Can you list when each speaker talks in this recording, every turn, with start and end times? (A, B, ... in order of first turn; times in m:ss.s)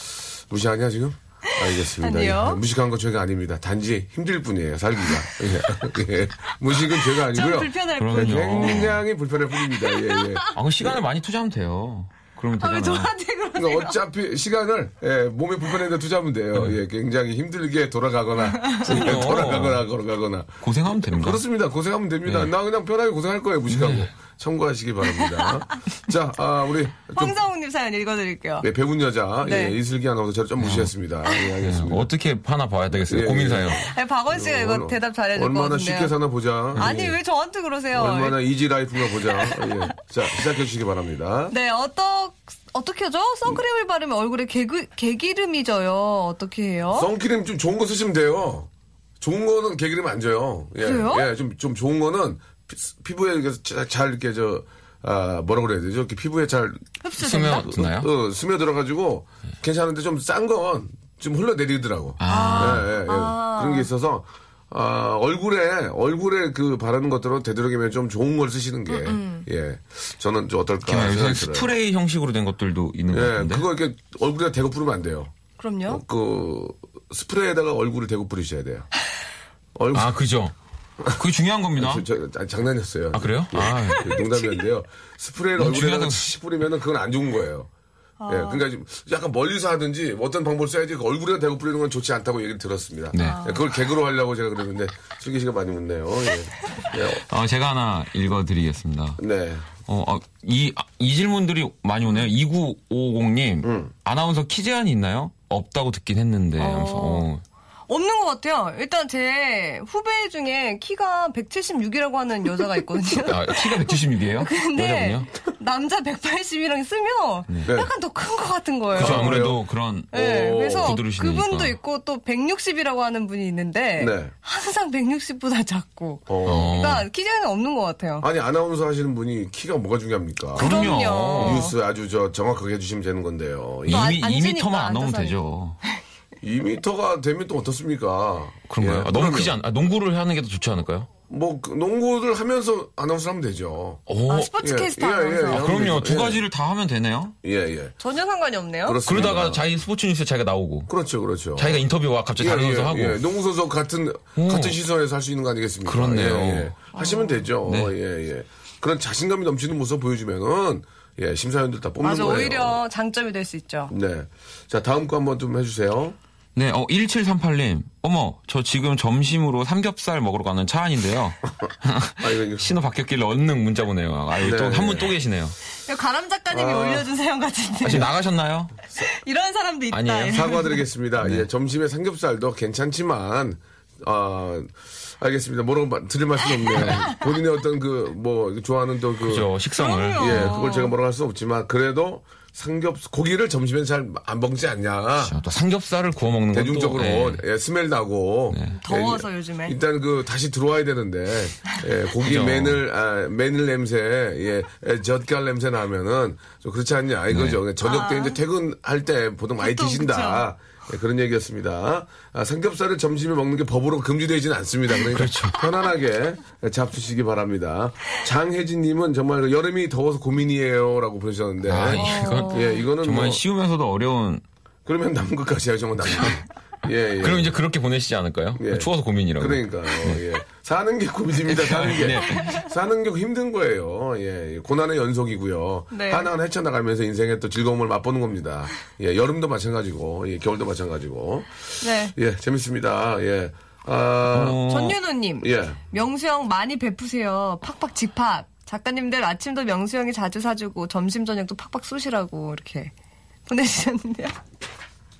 0:00.5-0:11.0 A
0:01.9-0:02.6 B
0:06.9-0:09.0 B
0:08.0-0:09.0 C
0:09.7-0:10.5 B
0:10.5-0:13.1 C
0:12.6-0:14.0 B
0:13.6-0:27.4 A
0:18.5-0:18.9 B
0:18.8-0:19.9 C
0:20.6-0:21.4 C
0:22.2-0:22.5 C
0:23.7-0:24.1 C
0:25.3-0:25.5 B
0:27.2-0:28.7 B
0:28.6-0:32.1 A
0:29.4-0:29.8 B
0:30.6-0:30.9 C
0:31.6-0:33.9 C
0:32.9-0:37.2 A
0:33.9-0:36.1 B
0:36.8-0:37.0 C
0:36.8-0:38.4 B
0:37.9-0:41.5 A
0:39.0-0:39.9 B
0:41.5-0:47.1 B
0:46.9-0:48.7 A
0:49.2-0:56.8 A
0:50.8-0:51.3 B
0:57.0-0:57.7 B
0:57.2-0:58.1 C
0:57.6-1:11.7 A
1:02.2-1:02.9 C
1:02.3-1:03.9 B
1:08.9-1:09.4 B
1:10.8-1:13.7 C
1:13.1-1:15.3 A
1:15.6-1:16.0 B
1:15.9-1:18.9 A
1:19.8-1:20.1 A
1:19.9-1:20.5 C
1:21.0-1:22.0 C
1:21.8-1:27.7 A
1:23.1-1:24.2 C
1:25.6-1:26.2 C
1:28.2-1:28.6 B
1:28.3-1:37.2 A
1:33.1-1:33.6 C
1:33.2-1:33.6 B
1:37.1-1:39.2 C
1:39.2-1:39.7 A
1:39.9-1:47.4 C
1:43.6-1:43.9 A
1:46.6-1:47.3 B
1:47.9-1:59.4 B
1:53.2-1:55.3 C
1:57.7-1:57.9 A
1:58.9-1:59.6 A
1:58.9-2:00.1 C
2:00.1-2:08.3 B
2:00.1-2:01.0 A
2:00.8-2:01.8 C
2:04.0-2:04.3 A
2:06.3-2:06.8 A
2:06.5-2:07.1 C
2:08.2-2:14.2 A
2:10.6-2:11.7 C
2:10.6-2:11.8 B
2:13.9-2:15.8 C
2:13.9-2:15.4 B
2:16.4-2:19.6 A
2:18.7-2:21.1 C
2:21.3-2:24.0 A
2:24.1-2:24.6 C
2:24.3-2:25.7 B
2:24.6-2:26.4 A
2:25.5-2:27.4 C
2:27.4-2:28.0 A
2:28.0-2:29.0 B
2:28.8-2:29.6 A
2:29.0-2:30.9 C
2:30.9-2:31.8 A
2:31.6-2:33.2 C
2:32.4-2:42.8 A
2:34.4-2:34.8 C
2:35.8-2:36.8 C
2:36.9-2:37.5 B
2:37.6-2:37.9 C
2:42.0-2:43.9 B
2:43.9-2:46.2 A
2:46.6-2:55.6 C
2:52.2-2:52.7 A
2:54.4-2:55.2 A
2:55.9-2:58.1 B
2:56.5-2:57.1 A
2:57.8-2:58.8 C
2:59.0-3:00.8 B
2:59.9-3:00.6 C
3:00.3-3:09.5 A
3:01.2-3:01.5 C
3:09.2-3:10.6 C
3:09.8-3:10.9 B
3:10.2-3:15.4 A
3:15.2-3:17.4 C
3:16.5-3:43.4 A
3:18.5-3:18.8 C
3:18.8-3:19.8 B
3:22.2-3:22.8 C
3:27.3-3:27.6 C
3:27.8-3:28.4 B
3:29.6-3:30.5 B
3:35.1-3:35.6 C
3:41.6-3:44.4 C
3:42.0-3:42.8 B
3:44.9-3:47.6 A
3:47.2-3:50.2 C
3:48.6-4:04.6 A
3:51.5-3:52.6 C
3:55.9-3:56.3 B
4:01.8-4:02.1 B
4:04.3-4:05.0 C
4:04.7-4:12.9 B
4:05.4-4:05.8 A
4:13.5-4:14.4 B